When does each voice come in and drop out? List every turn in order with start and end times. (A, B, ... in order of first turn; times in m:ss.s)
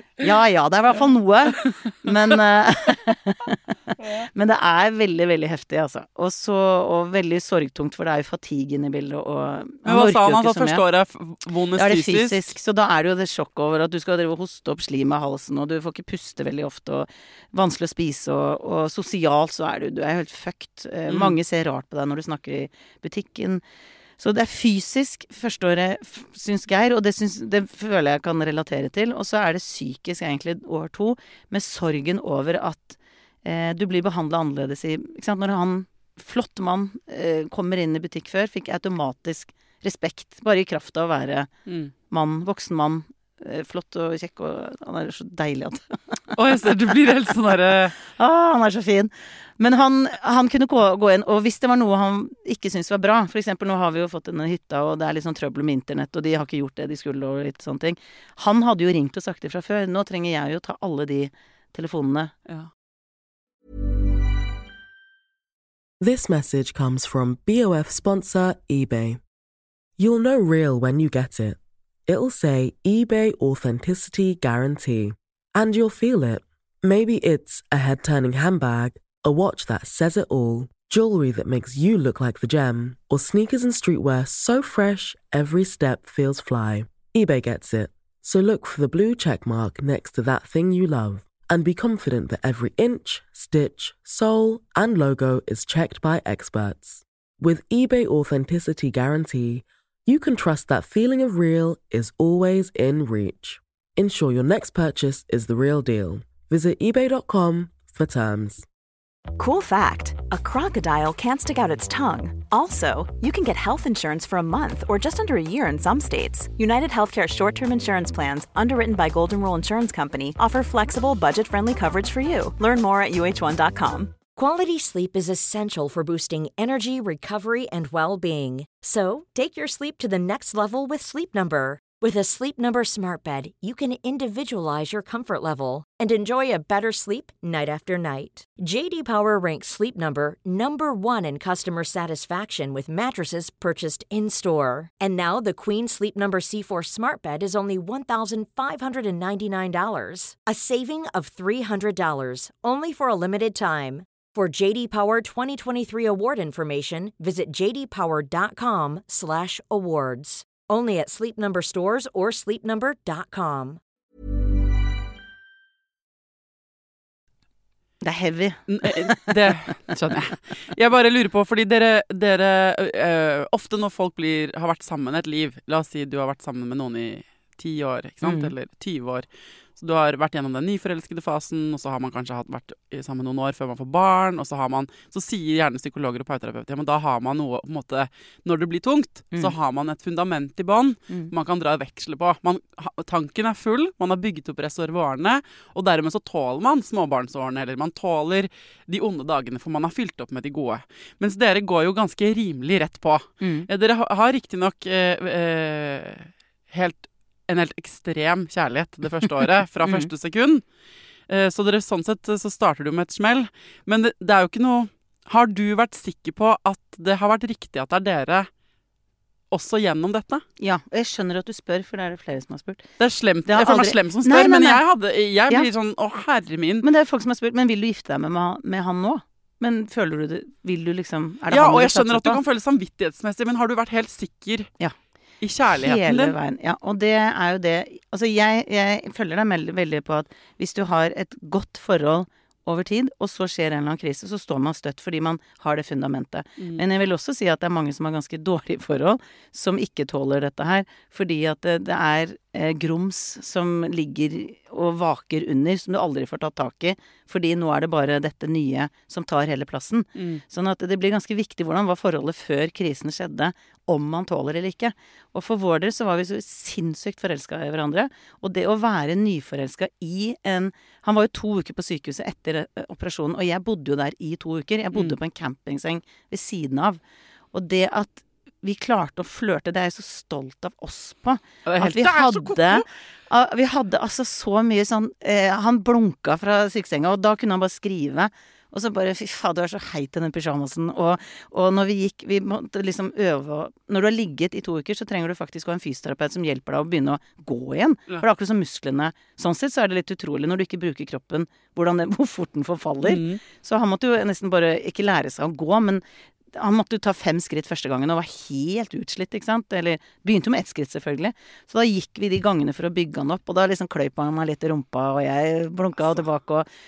0:00.2-0:10.8 A
0:01.6-0:02.4 B
0:09.8-0:12.5 B
0:11.8-0:23.6 A
0:21.1-0:21.4 B
0:24.2-0:41.5 A
0:41.7-0:41.9 B
0:42.1-0:47.0 A
0:46.3-0:47.9 B
0:48.0-1:02.3 A
1:06.0-1:09.2 C
1:10.0-1:48.6 C
1:49.4-2:04.2 D
2:04.3-2:43.8 E
2:48.0-2:49.6 A
2:48.7-2:59.2 B
2:58.2-2:58.5 A
2:59.8-3:30.6 B
3:23.4-3:23.7 A
3:29.8-3:30.1 A
3:31.3-3:38.5 B
3:39.5-3:40.4 B
3:40.6-3:42.9 A
3:43.0-3:46.9 B
3:43.5-3:44.8 A
3:46.8-3:52.4 A
3:51.5-3:54.7 B
3:55.4-3:56.4 B
3:55.7-4:37.0 A
4:20.2-4:20.4 B
4:37.5-5:06.0 A
4:41.6-4:42.8 B
5:03.0-5:03.4 B
5:06.5-5:16.6 A